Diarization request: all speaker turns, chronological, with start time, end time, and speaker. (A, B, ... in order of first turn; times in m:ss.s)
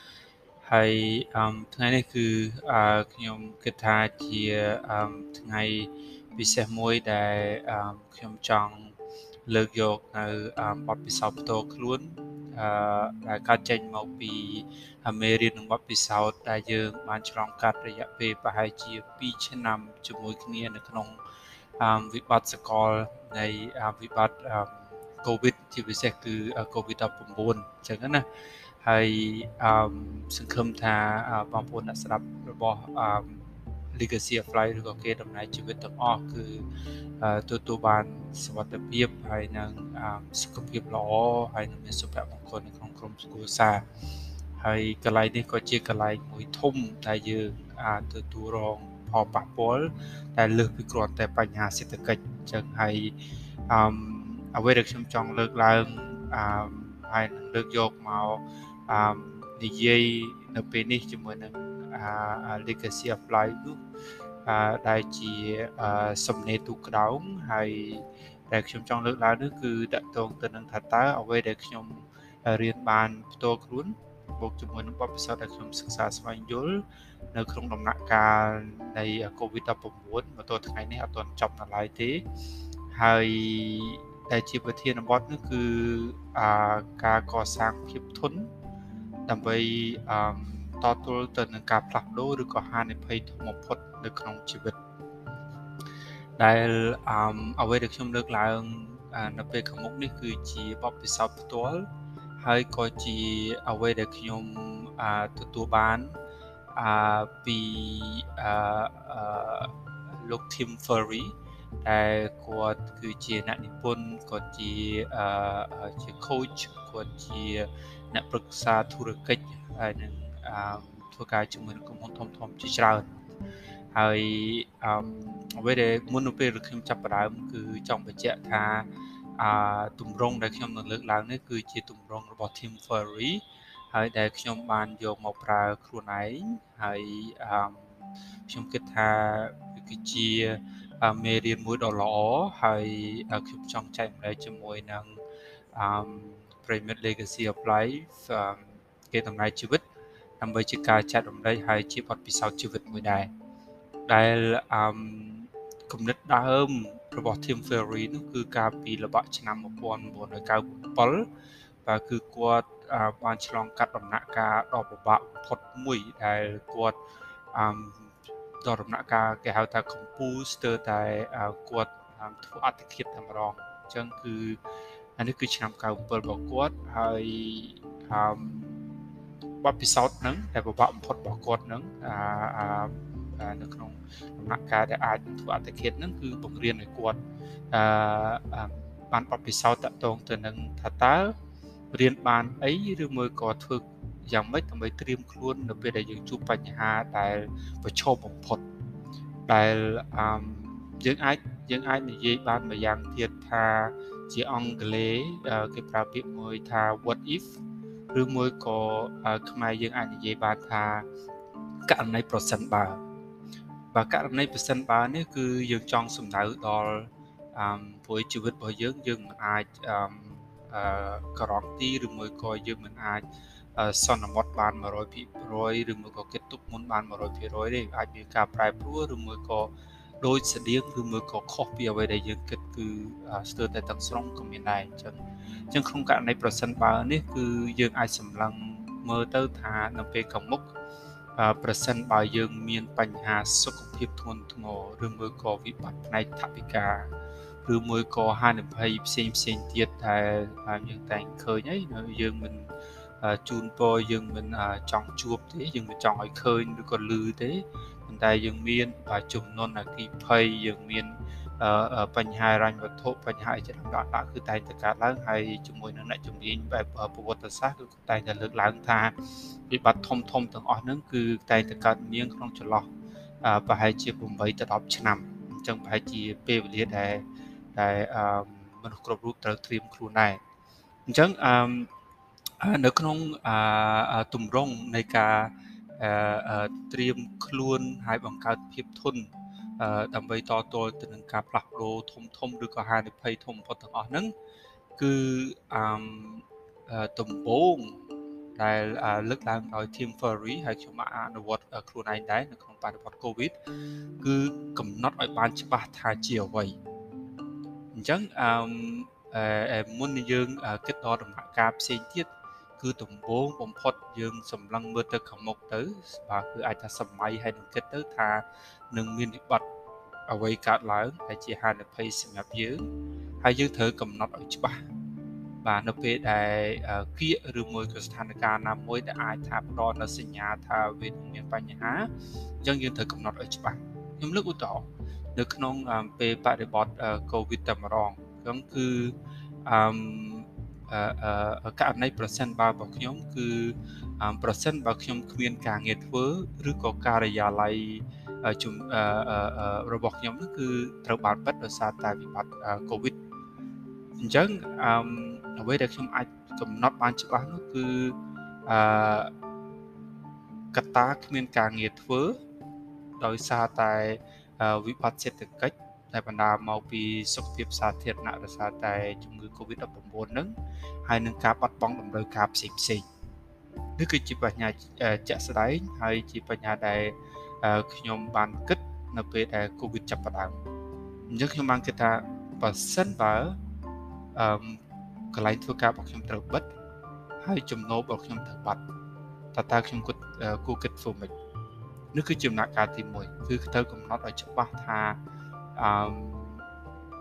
0:00.6-0:08.9 A
0:09.5-0:21.2 A
0:21.8-0:28.2 A
0:28.8-0:36.6 A
0:37.2-0:43.8 A
0:44.6-0:53.1 A
0:53.7-1:03.8 A
1:04.4-1:22.2 A
1:22.9-1:28.5 A
1:29.3-1:34.8 A
1:36.4-1:41.9 A
1:42.4-1:46.1 A
1:46.7-2:03.2 A
2:03.9-2:17.9 A
2:18.5-2:25.2 A
2:25.7-2:29.8 A
2:30.4-2:33.3 A
2:34.1-2:41.3 A
2:41.8-2:47.0 A
2:47.5-2:48.1 A
2:48.6-2:54.6 A
2:55.2-2:58.8 A
2:59.6-3:07.2 A
3:07.7-3:11.3 A
3:11.9-3:18.6 A
3:19.5-3:27.6 A
3:28.1-3:31.0 A
3:31.9-3:33.0 A
3:33.9-3:43.2 A
3:43.8-3:55.2 A
3:55.7-4:00.7 A
4:01.4-4:07.1 A
4:07.6-4:12.7 A
4:13.2-4:29.1 A
4:29.7-4:32.9 A
4:33.4-4:37.2 A
4:37.7-4:40.4 A
4:41.1-4:41.9 A
4:42.6-4:54.3 A
4:55.0-4:58.0 A
4:58.6-5:03.5 A
5:04.2-5:06.8 A
5:07.9-5:19.6 A
5:20.3-5:22.9 A
5:23.4-5:24.8 A
5:25.6-5:32.1 A
5:32.6-5:39.1 A
5:39.6-5:53.1 A
5:54.2-5:59.3 A
6:00.7-6:02.4 A
6:03.2-6:10.5 A
6:11.0-6:13.0 A
6:14.0-6:20.6 A
6:21.3-6:23.6 A
6:24.3-6:24.8 A
6:25.3-6:26.7 A
6:27.4-6:28.8 A
6:29.5-6:31.3 A
6:32.1-6:35.2 A
6:35.8-6:36.6 A